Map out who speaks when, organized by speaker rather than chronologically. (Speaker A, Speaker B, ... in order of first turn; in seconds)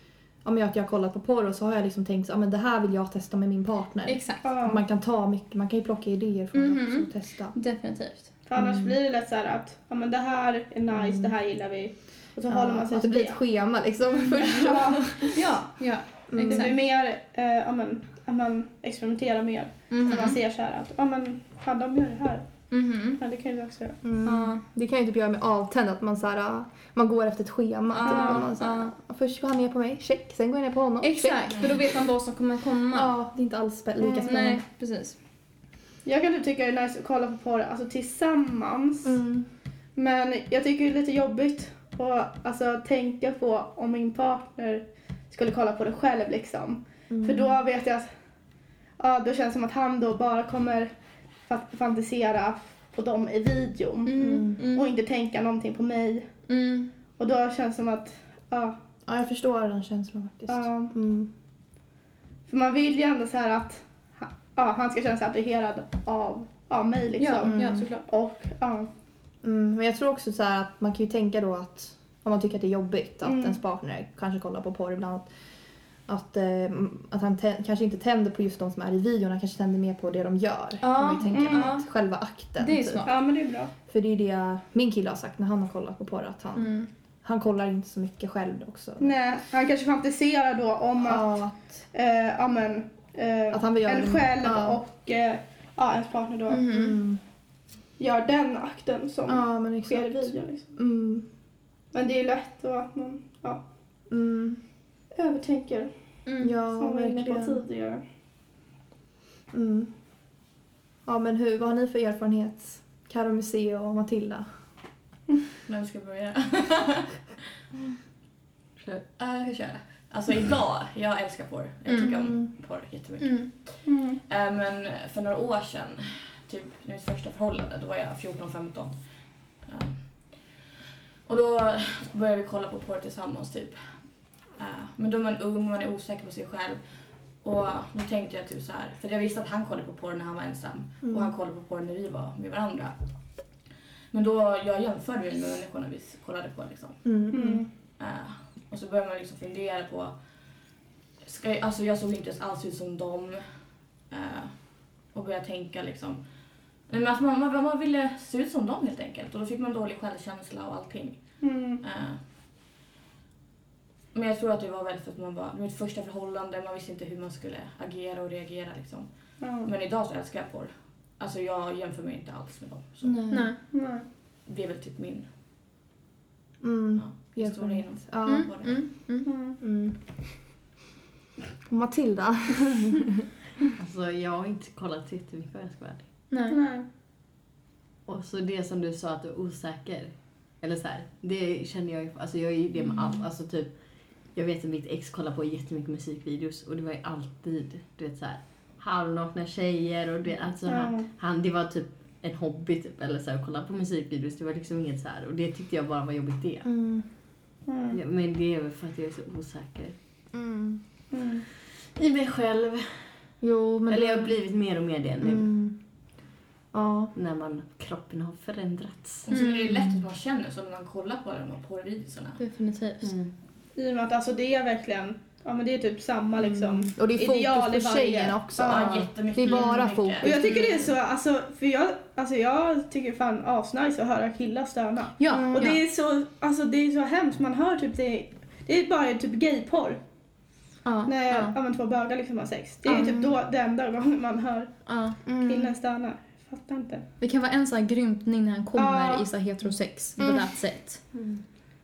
Speaker A: 0.4-7.5, 8.6-8.9, 10.9-11.4, 12.5-15.3, 16.3-16.7, 24.0-31.6, 32.9-34.6, 39.0-39.5, 47.1-47.6, 54.2-54.6, 59.1-61.3, 67.4-67.8, 69.4-75.3, 76.1-83.2, 83.9-86.7, 87.2-89.2, 91.0-91.8, 93.5-94.8, 96.7-97.2, 99.3-101.2, 104.1-104.6, 106.4-107.6, 109.5-109.9, 111.0-114.5, 121.9-122.5, 141.1-141.3, 147.1-147.6, 173.0-173.5, 176.6-178.5, 179.6-180.0, 181.7-183.2, 206.6-207.1, 210.3-210.8, 213.4-214.3, 215.2-215.7, 216.7-217.1, 219.6-220.0, 226.6-230.7, 235.3-235.8, 242.9-243.3, 245.2-245.7, 250.2-250.5
Speaker B: 4.0-4.5, 6.5-8.3, 15.3-16.7, 19.9-20.4, 22.7-23.2, 24.2-24.6, 27.9-28.9, 31.0-33.1, 34.2-35.1, 54.0-54.9, 56.5-56.9, 67.2-68.0, 80.8-81.9, 82.6-83.1, 86.5-86.9, 96.5-97.0, 106.2-106.5, 121.9-122.2, 123.2-123.5, 173.3-173.6, 178.2-179.3, 186.3-186.6, 219.3-219.7, 222.4-223.1, 235.2-235.8, 240.8-241.6, 242.9-243.1, 244.9-245.2, 247.2-251.0
Speaker C: 4.4-4.8, 8.5-13.4, 14.3-15.1, 16.4-22.5, 23.2-24.0, 28.1-28.5, 34.0-34.4, 36.0-39.2, 40.0-48.1, 49.0-50.9, 51.5-56.3, 57.2-58.8, 60.5-60.9, 62.5-68.9, 73.2-73.6, 81.3-81.7, 83.0-83.7, 89.0-91.3, 91.9-96.7, 98.0-100.6, 101.9-103.6, 105.1-105.9, 106.7-108.0, 123.8-124.2, 147.3-147.7, 161.4-161.8, 169.4-169.7, 173.6-174.1, 179.2-179.6, 186.5-186.9, 200.7-201.1, 207.7-208.0, 211.1-211.4, 223.7-228.9, 230.2-240.0, 241.1-244.7, 245.4-247.0, 248.7-249.3
Speaker D: 115.7-117.2, 119.2-129.0, 129.7-130.4, 131.2-133.8, 134.6-136.8, 137.4-142.9, 144.1-147.0, 148.0-150.2, 151.2-153.5, 154.1-154.5, 155.1-156.2, 156.9-162.2, 164.1-173.2, 174.5-175.3, 177.0-178.8, 219.2-222.4, 228.6-230.4
Speaker E: 183.8-186.1, 188.1-193.7, 194.3-206.7, 207.9-209.9, 211.9-212.9, 213.9-215.5, 217.1-219.3, 223.0-223.3, 251.1-251.4